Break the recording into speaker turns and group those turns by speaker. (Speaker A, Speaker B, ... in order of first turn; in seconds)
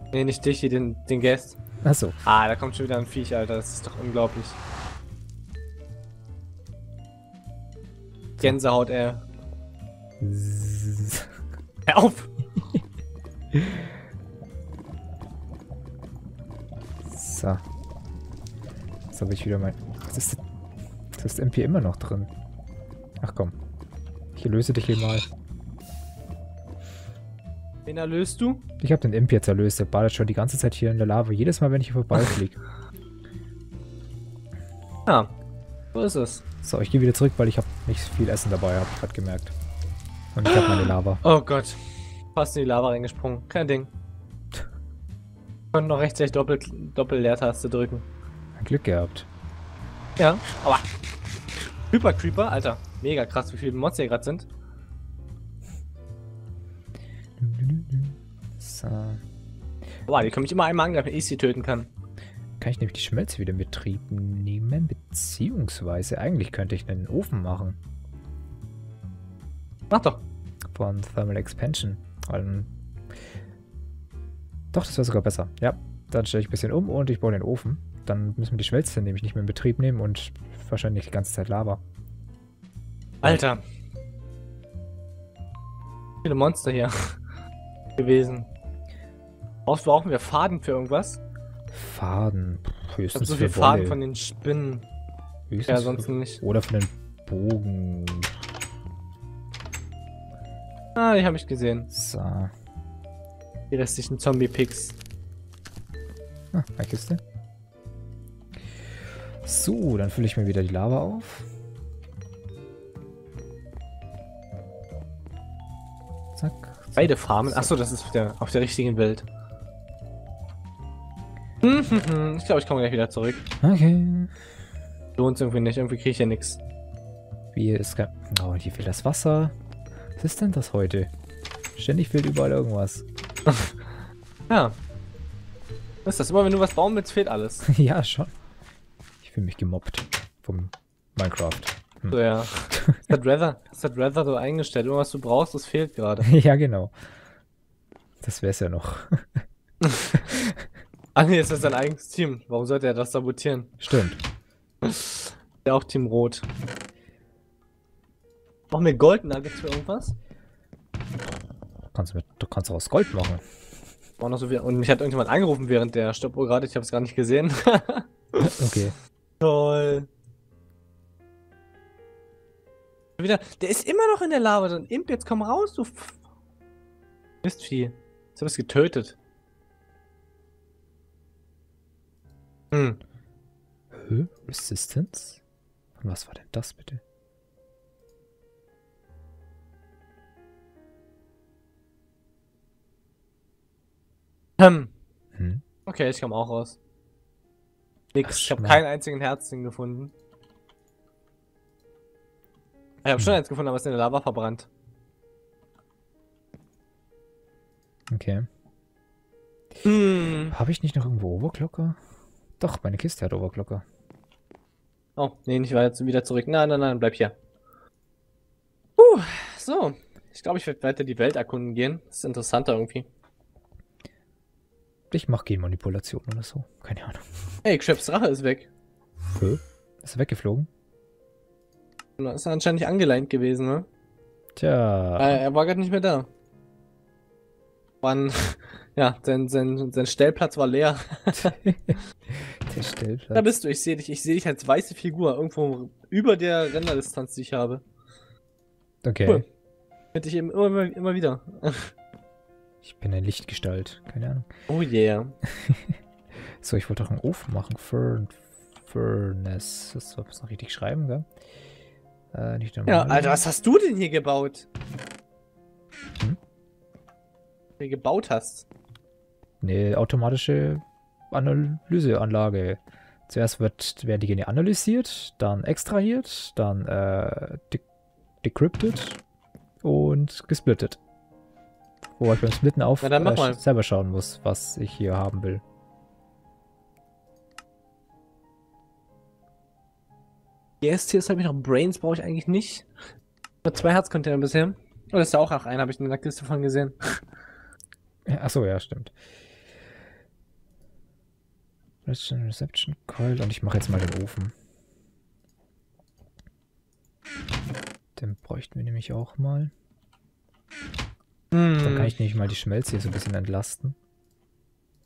Speaker A: 0.1-1.6, 2.2-4.6, 8.4-9.2, 11.9-12.3, 27.9-28.6, 35.1-35.3, 35.9-36.4, 40.5-41.8, 42.3-43.9, 45.7-48.0, 50.2-50.9, 51.9-54.5, 60.1-61.9, 69.9-70.2, 83.2-83.6, 86.2-87.2, 88.0-88.5, 89.7-91.2, 93.1-94.8, 95.7-96.4, 101.0-101.9, 103.7-105.0, 117.0-119.2, 121.6-123.5, 125.2-126.6, 133.5-133.8, 134.5-134.8, 136.0-137.7, 142.1-146.3, 149.8-150.2, 151.1-153.8, 154.8-156.4, 158.7-160.2, 164.2-168.8, 169.4-170.1, 173.2-176.2, 177.4-179.2, 182.7-183.0, 194.6-194.9, 195.9-196.8, 198.1-200.1, 203.0-204.7, 209.8-210.6, 215.2-217.3, 219.0-223.1, 227.6-228.7, 232.2-233.9, 235.2-236.3, 238.0-241.6, 243.3-247.8, 250.1-251.9, 254.7-255.4, 262.9-264.6, 267.8-268.7, 283.0-283.6, 290.8-292.9, 293.6-297.2, 311.5-312.1
Speaker B: 1.8-2.2, 10.2-11.3, 13.5-13.8, 17.1-17.6, 19.1-20.4, 21.1-22.3, 23.2-23.5, 24.4-25.3, 28.8-32.6, 36.6-39.5, 40.3-41.2, 48.6-49.3, 57.4-59.2, 62.6-67.8, 70.7-72.7, 74.7-81.8, 91.7-94.0, 95.5-98.4, 101.9-102.5, 106.5-107.2, 109.4-111.5, 116.3-117.7, 123.6-124.3, 127.5-129.5, 130.2-131.1, 131.8-133.0, 137.7-138.3, 139.2-142.2, 142.7-143.0, 146.2-146.9, 148.2-149.4, 150.1-150.7, 153.8-154.2, 161.9-163.4, 168.4-168.9, 183.9-185.4, 186.0-187.0, 195.3-195.6, 198.2-198.8, 208.1-208.5, 210.5-212.0, 212.6-213.8, 225.1-227.2, 229.3-230.7, 234.6-235.4, 241.3-243.5, 249.0-249.4, 252.8-254.5, 255.4-261.3, 262.3-263.4, 269.6-277.8, 278.4-279.2, 279.8-281.0, 282.2-285.6, 298.2-299.1, 302.1-304.5, 308.1-309.7, 311.8-314.0